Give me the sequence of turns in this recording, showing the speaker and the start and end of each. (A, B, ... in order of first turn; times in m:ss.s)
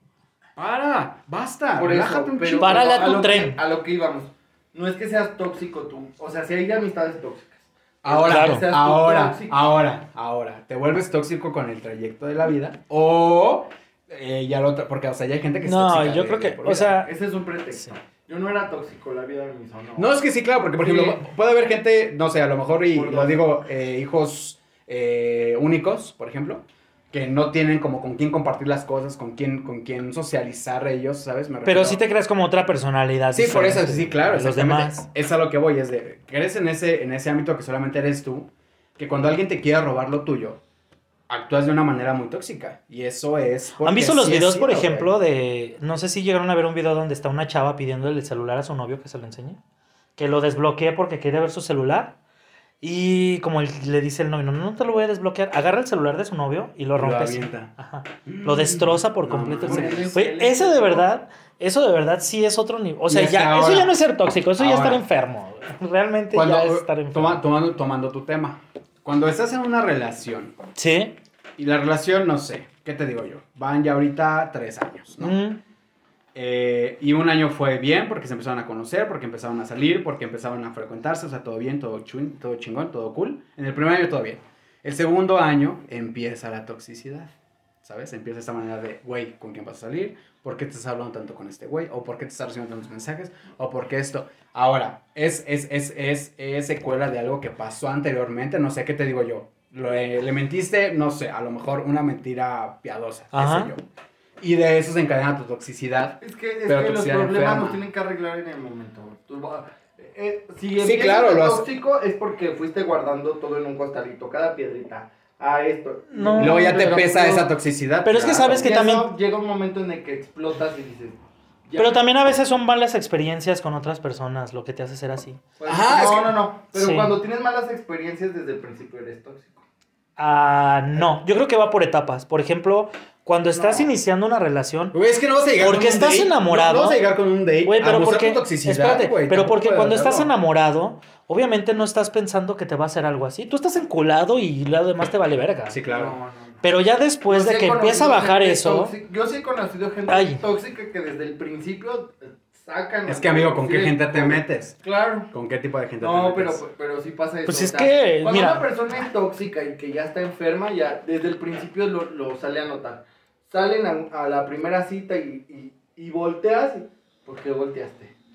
0:00.6-0:02.8 A
0:01.8-0:09.6 B
0:02.6-0:03.6 C
0:08.0-0:17.0 A
0:08.2-0:08.7 C
0:15.6-0:17.1 C
0:17.0-0:20.1 B
0:20.0-0:32.0 A
0:20.8-0:21.2 B
0:22.9-0:23.5 B
0:31.6-0:35.0 C
0:33.3-0:40.6 A
0:41.3-0:45.1 A
0:43.8-0:49.6 C
0:50.2-0:52.2 C
0:52.8-1:07.4 C
0:57.0-0:57.7 A
0:58.2-1:00.1 A
0:59.6-1:01.1 B
1:03.1-1:04.0 A
1:04.6-1:05.0 A
1:06.3-1:10.5 A
1:10.8-1:11.2 C
1:11.6-1:15.4 A
1:15.2-1:15.6 C
1:16.3-1:27.3 A
1:27.8-1:43.8 A
1:43.3-1:43.7 C
1:44.4-1:47.8 A
1:46.2-1:57.5 B
1:50.8-1:51.6 A
1:56.1-1:57.0 C
1:56.4-1:58.8 A
1:58.0-1:59.1 C
1:58.6-2:02.0 B
2:01.8-2:05.4 C
2:05.6-2:09.6 B
2:05.7-2:06.3 A
2:06.7-2:07.1 C
2:10.2-2:14.9 C
2:13.5-2:13.9 B
2:14.9-2:20.3 A
2:15.6-2:17.0 C
2:17.6-2:25.8 C
2:25.7-2:26.1 A
2:25.9-2:26.6 B
2:26.6-2:28.9 C
2:27.3-2:35.3 B
2:30.1-2:30.4 C
2:33.1-2:34.8 A
2:35.3-2:36.6 A
2:36.0-2:48.1 B
2:37.4-2:38.6 C